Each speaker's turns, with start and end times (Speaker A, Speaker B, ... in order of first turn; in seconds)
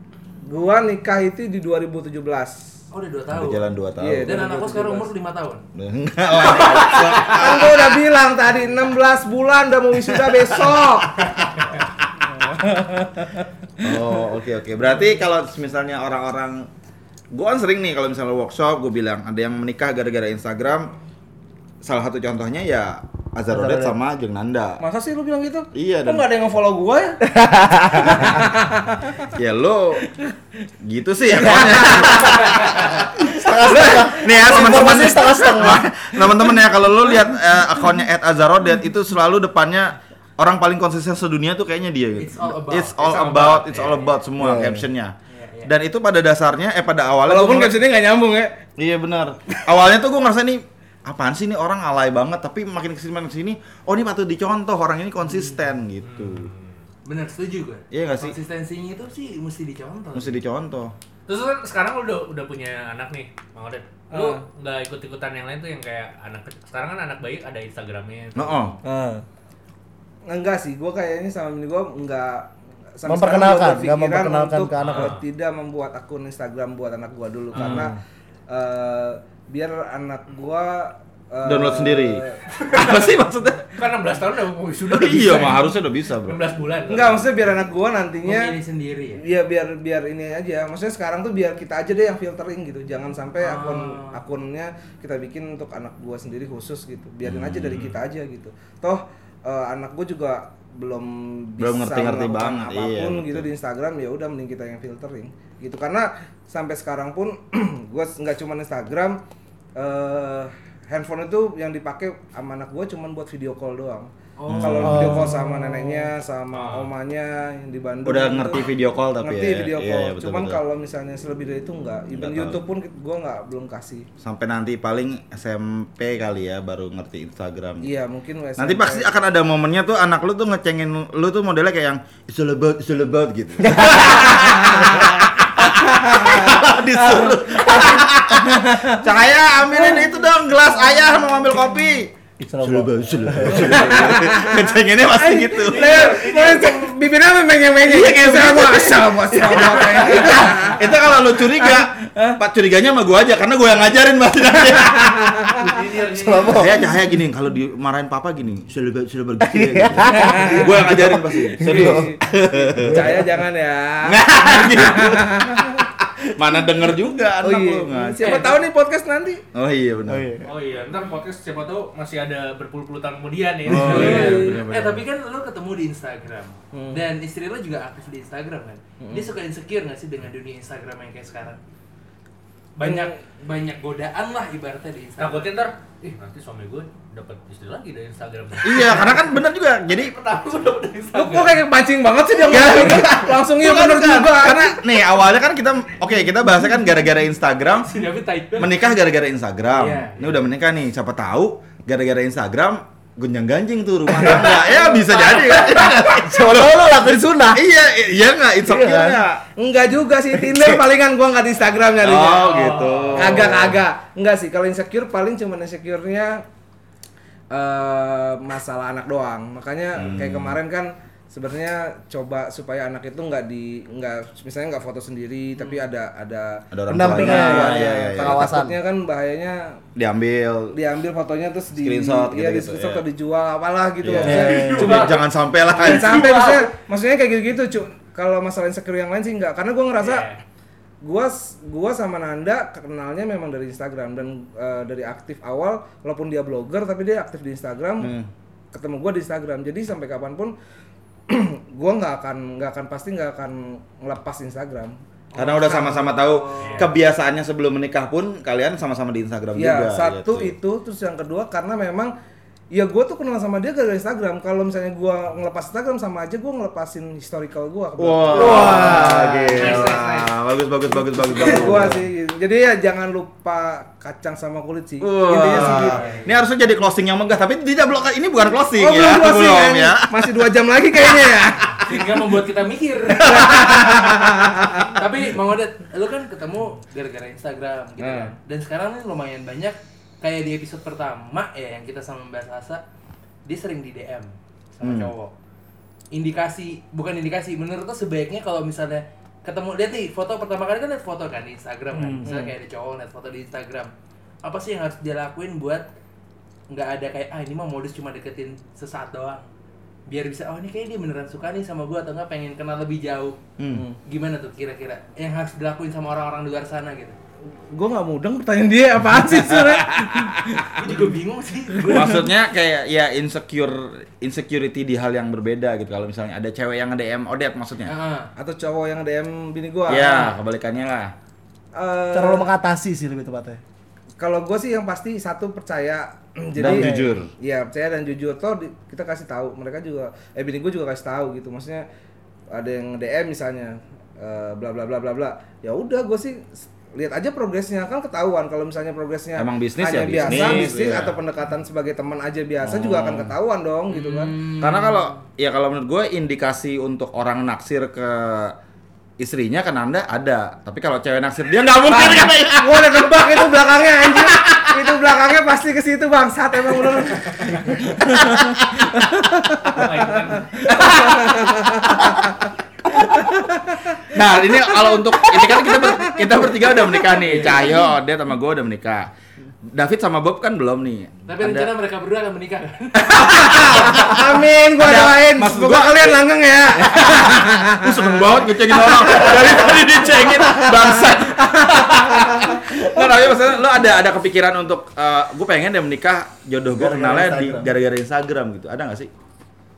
Speaker A: 0.5-2.7, 4.0-5.1, 7.3-11.3, 12.3-13.4, 24.8-27.2, 28.0-29.3, 31.6-32.1, 47.2-48.6, 64.1-64.4, 70.2-77.9, 78.5-82.4, 86.9-88.5, 89.2-109.2, 109.8-118.7, 119.2-124.1, 127.8-129.1, 135.8-139.1, 139.7-140.1, 143.5-150.9, 151.5-152.4, 160.1-160.7, 161.6-162.2, 162.8-165.8, 167.4-169.4, 173.9-174.6, 176.7-177.0, 179.0-179.3, 182.8-183.1, 191.1-194.8, 209.6-212.6, 213.1-216.4, 217.5-229.8, 230.7-235.2, 235.7-240.3, 241.0-248.1, 248.7-250.5, 251.3-255.0, 259.5-262.1, 262.7-269.9, 271.2-276.2, 278.8-282.0, 283.2-284.9, 288.0-288.3, 302.0-302.5, 313.7-314.0, 317.7-320.9, 328.4-330.2, 331.7-332.4, 334.2-341.8, 342.5-354.4, 361.9-372.4, 373.2-374.0, 375.3-376.3, 383.3-392.8
Speaker B: 2.9-3.6, 4.2-5.6, 6.4-7.4, 42.1-44.2, 45.3-45.7, 57.0-60.4, 88.2-89.2, 93.4-94.2, 114.4-115.3, 150.2-150.5, 168.2-168.6, 173.7-181.6, 182.8-185.5, 188.8-189.2, 189.9-191.6, 197.8-198.8, 199.7-200.4, 255.3-256.9, 269.6-270.3, 275.7-276.3, 281.8-283.7, 284.9-292.8, 293.4-295.3, 296.1-303.9, 304.4-305.9, 306.7-309.4, 310.1-313.4, 314.1-317.2, 320.7-322.3, 327.8-328.3, 329.9-330.3, 353.9-355.2, 377.2-377.7, 381.3-383.5
Speaker C: 3.3-4.5, 5.8-8.0, 10.1-11.8, 13.8-16.7, 17.3-20.9, 21.8-24.8, 25.7-26.2, 29.3-30.0, 30.8-47.8, 48.8-56.5, 57.9-58.4, 60.1-60.9, 68.3-68.7, 77.5-77.9, 81.4-83.7, 84.8-86.4, 97.2-97.9, 101.6-103.5, 114.5-115.4, 118.0-120.6, 122.1-122.6, 124.2-127.9, 128.6-146.0, 147.8-149.0, 150.8-155.3, 156.5-163.1, 164.0-168.5, 169.5-170.3, 173.7-175.0, 188.6-190.1, 192.4-197.9, 198.6-206.9, 207.5-209.4, 212.0-213.8, 219.9-220.6, 226.7-228.6, 229.9-230.8, 231.7-233.0, 234.0-236.5, 248.0-248.3, 255.3-260.5, 268.0-272.0, 275.0-280.2, 283.3-284.1, 294.8-295.1, 313.6-313.9, 319.5-320.6, 321.9-327.9, 329.9-331.1, 336.6-337.3, 349.4-351.2, 352.6-353.3, 354.5-358.6, 359.2-364.9, 368.4-368.9, 370.7-371.2, 371.9-372.2, 374.1-379.1, 379.7-381.7, 383.0-386.2, 386.8-399.1
Speaker D: 23.5-23.9, 27.3-28.4, 31.4-32.5, 33.2-36.1, 44.4-44.9, 68.8-69.2, 73.0-75.1, 114.8-115.4, 133.6-135.1, 142.4-144.1, 149.7-150.2, 155.9-157.0, 159.4-162.1, 162.7-163.4, 170.1-170.4, 204.1-204.7, 205.2-207.6, 208.6-209.2, 210.3-210.8, 226.9-228.8, 234.1-235.1, 268.3-269.7, 271.4-271.9, 332.1-333.6, 336.6-337.2, 350.5-350.8, 396.8-397.7
Speaker E: 56.0-56.8, 61.3-68.7, 74.8-75.2, 82.6-83.1, 83.7-87.2, 116.5-116.9, 145.6-146.9, 155.6-156.6, 170.4-174.6, 185.2-189.1, 212.4-213.3, 234.5-235.2, 235.7-236.7, 240.0-240.4, 256.6-256.9, 369.6-371.0